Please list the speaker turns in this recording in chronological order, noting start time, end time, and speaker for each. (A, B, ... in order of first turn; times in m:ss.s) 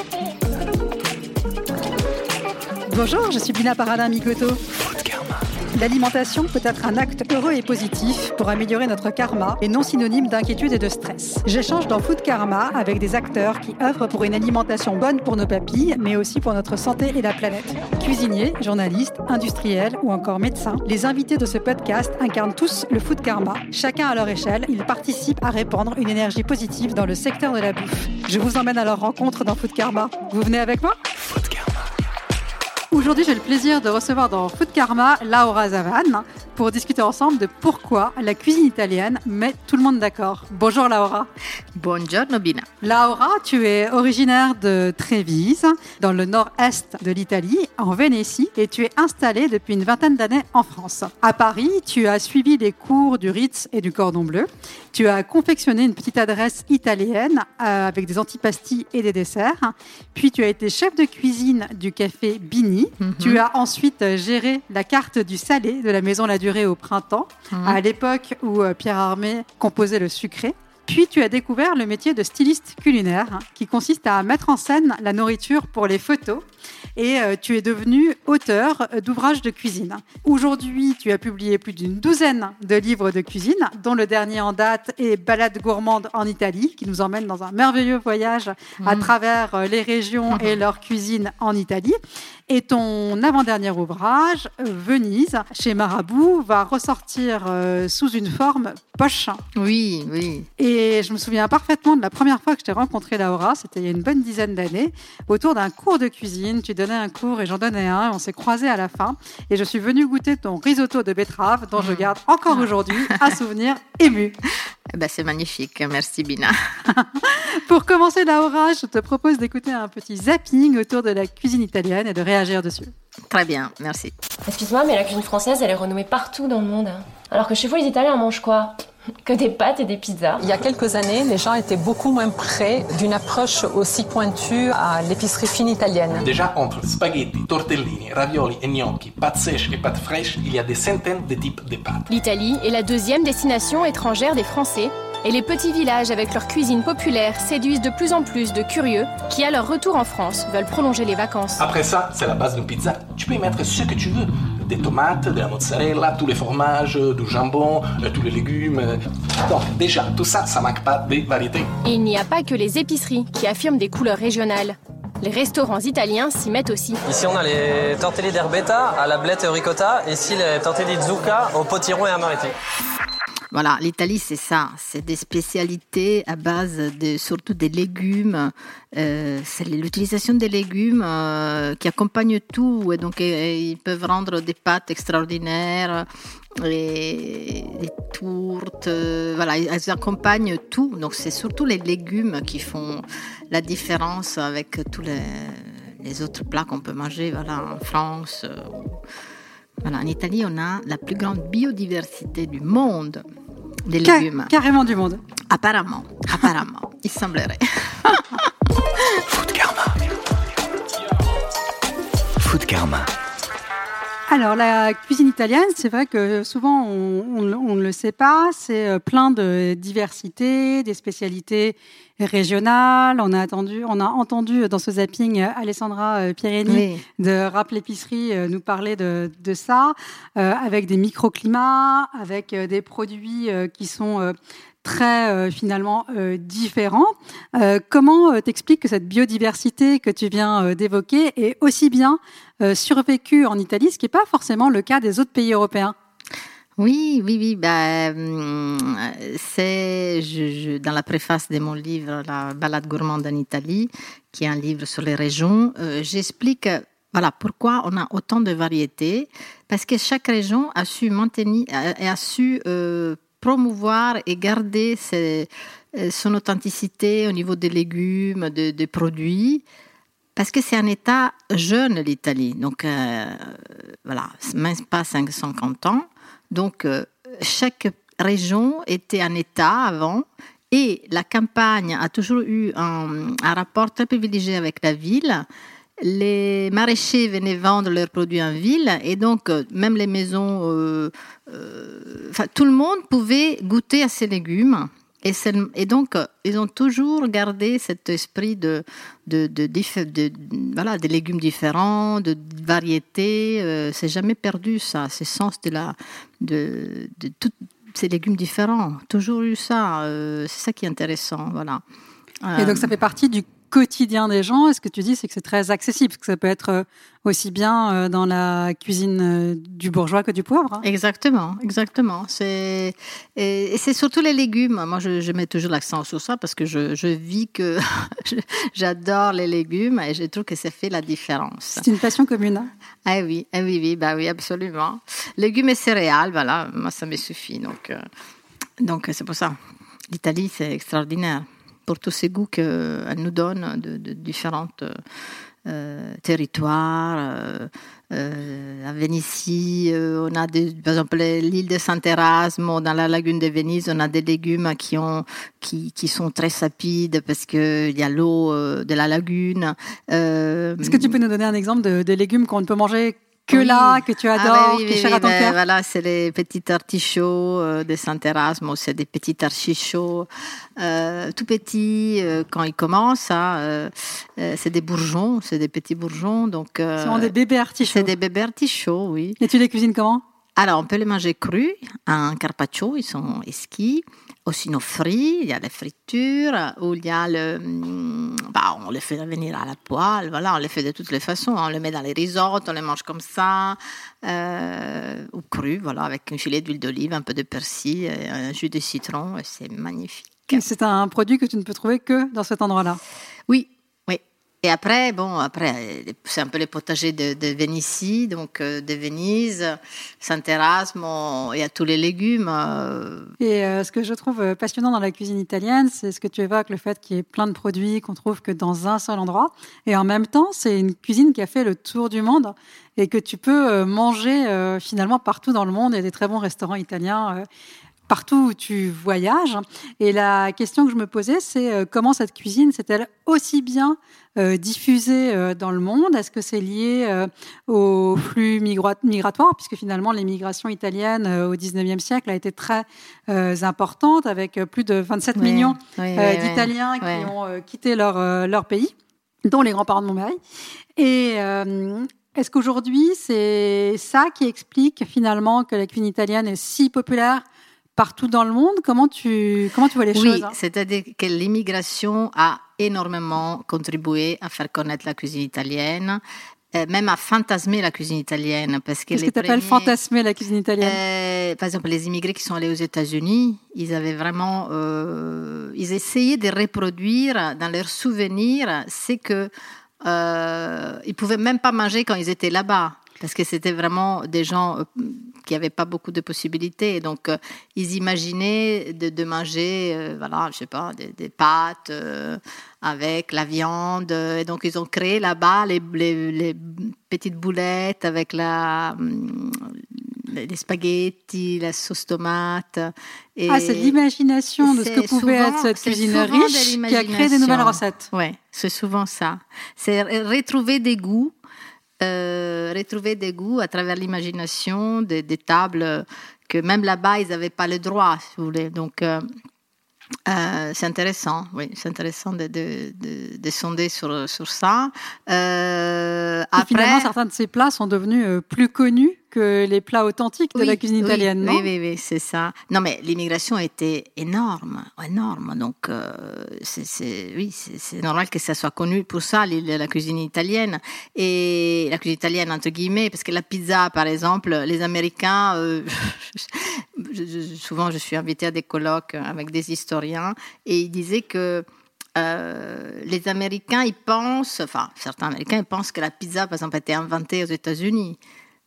0:02.9-0:04.6 A
0:04.7-0:05.4 B
0:05.8-0:31.0 A
0:31.2-0:31.9 B
0:32.9-0:41.3 A
0:41.8-0:42.7 C
0:42.8-1:16.4 A
1:03.0-1:03.4 C
1:07.5-1:07.8 C
1:17.0-1:32.0 A
1:28.8-1:29.1 C
1:30.3-1:30.6 C
1:32.5-1:39.4 A
1:39.6-1:40.5 C
1:40.6-1:54.4 A
1:51.8-1:53.3 C
1:54.9-1:56.6 C
1:56.9-2:02.9 A
2:03.3-2:04.1 C
2:04.5-2:10.5 D
2:10.4-2:16.3 E
2:16.2-2:22.1 F
2:22.1-2:31.6 G
2:31.6-2:41.7 F
2:41.8-2:47.0 G
2:47.0-2:52.6 H
2:53.5-3:19.0 C
3:19.8-3:23.2 C
3:23.9-3:24.5 C
3:24.0-3:25.2 A
3:25.5-3:28.5 C
3:29.3-3:30.0 B
3:32.4-3:33.1 B
3:34.3-4:06.0 A
3:46.7-3:47.0 C
4:06.8-4:29.6 C
4:30.4-4:45.5 C
4:46.0-5:11.8 C
5:12.4-5:12.9 C
5:12.6-5:20.8 A
5:20.8-5:31.9 C
5:31.7-5:32.7 A
5:33.1-5:38.0 C
5:38.8-5:39.6 C
5:40.1-5:45.0 C
5:45.6-6:01.1 C
6:00.8-6:05.6 A
6:03.5-6:19.4 C
6:17.0-6:18.1 A
6:19.4-6:20.2 A
6:20.6-6:40.6 C
6:40.5-6:43.0 A
6:43.5-6:53.3 C
6:53.4-7:07.5 A
7:08.1-7:28.9 A
7:25.4-7:27.3 C
7:29.4-7:30.4 A
7:31.0-7:37.4 A
7:38.0-7:40.5 A
7:40.1-7:49.9 C
7:49.1-7:51.0 A
7:50.8-8:24.0 C
8:23.5-8:28.1 A
8:24.6-8:31.4 C
8:32.0-8:39.2 C
8:40.3-8:47.1 C
8:46.6-8:51.7 A
8:50.5-9:11.6 C
9:12.2-9:18.2 C